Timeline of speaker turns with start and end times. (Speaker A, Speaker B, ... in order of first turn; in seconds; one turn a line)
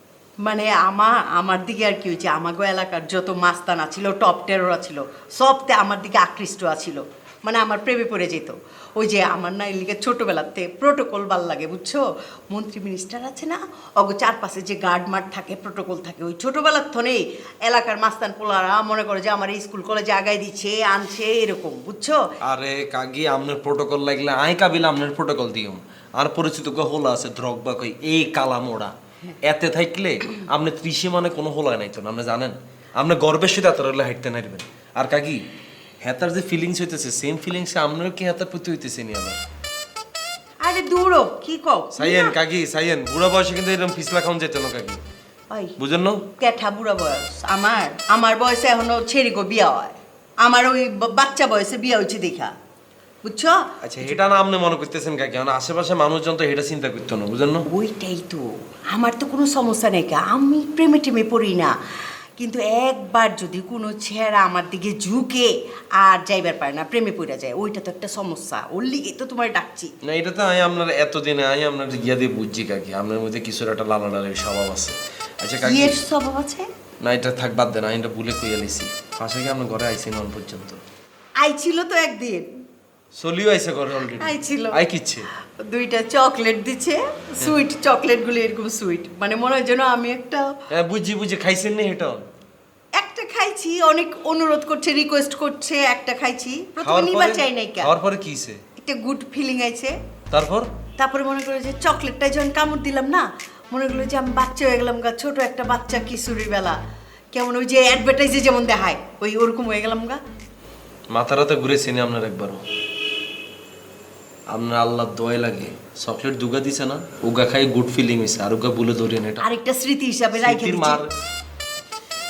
Speaker A: 0.4-22.2
Speaker B: 22.4-35.4
Speaker B: 36.0-39.4
Speaker A: 40.6-42.4
Speaker B: 41.9-45.0
Speaker B: 45.8-46.2
Speaker A: 46.4-52.5
Speaker A: 53.2-53.5
Speaker B: 53.8-57.6
Speaker A: 57.7-61.7
Speaker A: 62.4-69.9
Speaker B: 70.0-76.0
Speaker A: 75.6-76.7
Speaker B: 77.0-80.8
Speaker A: 81.4-82.5
Speaker B: 83.2-85.3
Speaker A: 84.2-84.8
Speaker A: 85.6-90.5
Speaker B: 90.7-92.2
Speaker A: 93.0-97.9
Speaker B: 96.8-98.6
Speaker A: 98.8-99.9
Speaker B: 100.3-100.7
Speaker A: 101.0-106.8
Speaker A: 107.3-110.2
Speaker B: 111.1-112.6
Speaker B: 114.5-119.4
Speaker A: 119.4-121.0
Speaker B: 120.3-121.1